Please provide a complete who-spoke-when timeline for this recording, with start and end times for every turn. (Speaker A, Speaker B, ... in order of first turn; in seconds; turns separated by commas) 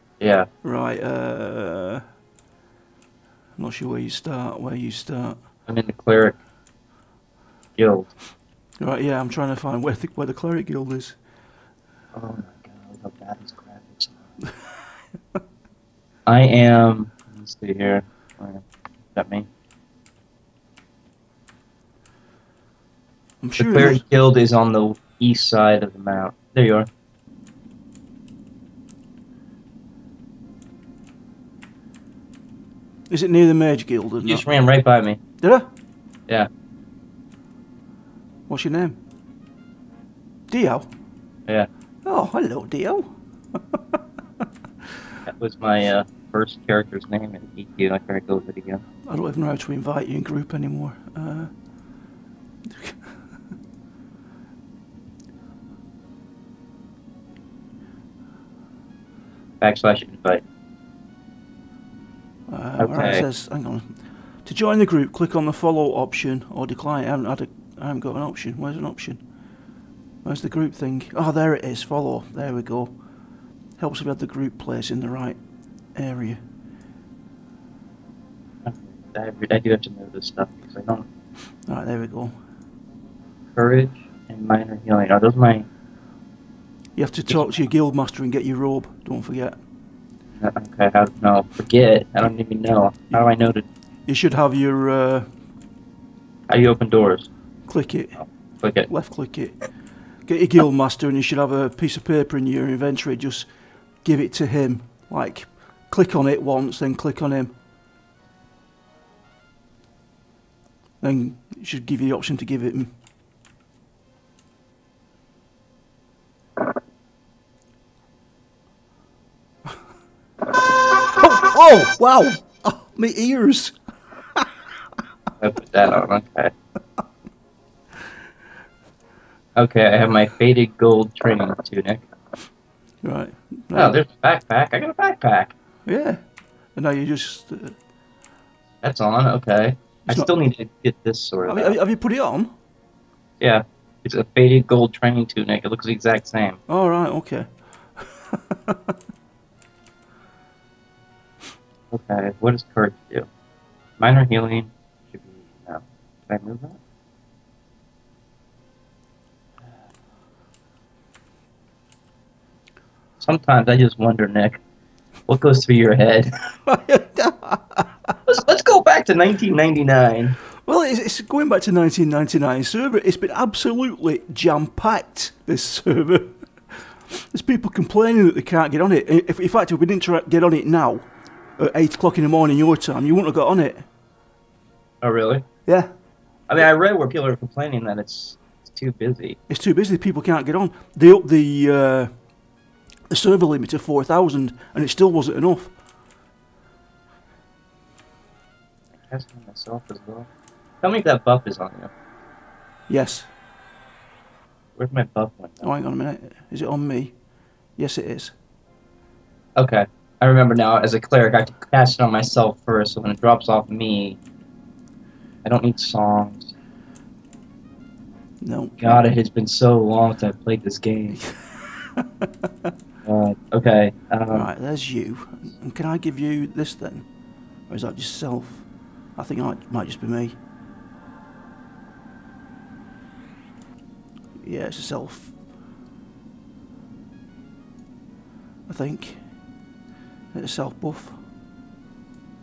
Speaker A: 0.2-0.5, Speaker B: 0.6-2.0, Speaker B: 3.6-5.4, Speaker A: 5.7-6.4, Speaker A: 7.8-8.1, Speaker B: 8.8-11.2, Speaker A: 12.1-14.2, Speaker A: 16.3-19.5, Speaker B: 23.4-24.0, Speaker A: 23.6-26.9, Speaker B: 33.1-34.5, Speaker A: 34.2-35.2, Speaker B: 35.4-35.7, Speaker B: 38.5-39.0, Speaker B: 40.5-40.9, Speaker B: 42.0-44.0, Speaker A: 45.3-48.8, Speaker B: 49.1-51.7, Speaker B: 52.7-53.1, Speaker A: 59.6-60.4, Speaker B: 62.5-69.2, Speaker A: 62.8-63.2, Speaker B: 70.2-73.0, Speaker B: 73.8-75.4, Speaker B: 75.9-76.4, Speaker A: 78.7-81.1, Speaker B: 81.7-82.3, Speaker A: 83.5-85.7, Speaker B: 87.0-89.6, Speaker A: 87.3-87.6, Speaker A: 90.4-93.7, Speaker B: 94.1-95.3, Speaker A: 96.5-97.3, Speaker B: 97.7-98.2, Speaker A: 98.2-98.9, Speaker B: 98.9-99.7, Speaker B: 100.2-103.5, Speaker B: 104.0-107.6, Speaker B: 111.0-112.9, Speaker B: 121.1-123.8, Speaker A: 125.4-126.5, Speaker A: 129.6-132.1, Speaker B: 133.0-134.0, Speaker A: 133.7-135.5, Speaker B: 135.9-136.2, Speaker B: 136.8-137.8, Speaker A: 138.8-141.8, Speaker B: 141.5-142.5, Speaker A: 143.4-146.6, Speaker B: 146.7-148.9, Speaker A: 151.9-153.3, Speaker A: 154.0-156.8, Speaker A: 163.2-164.6, Speaker A: 165.3-166.3, Speaker B: 166.7-168.1, Speaker A: 168.3-170.4, Speaker B: 170.7-183.9, Speaker A: 185.0-185.5, Speaker B: 185.7-185.9, Speaker A: 186.5-189.4, Speaker B: 189.5-192.1, Speaker B: 193.1-195.8, Speaker A: 199.0-200.3, Speaker A: 200.8-201.9, Speaker B: 202.9-203.3, Speaker A: 204.8-205.7, Speaker B: 205.6-207.2, Speaker B: 207.8-208.3, Speaker A: 209.6-214.2, Speaker A: 215.4-216.5, Speaker B: 218.4-219.0, Speaker A: 218.8-221.2, Speaker B: 221.2-222.3, Speaker A: 223.1-224.5, Speaker B: 224.3-227.1, Speaker B: 227.6-230.4, Speaker B: 234.4-235.3, Speaker B: 238.7-239.2, Speaker B: 240.3-241.2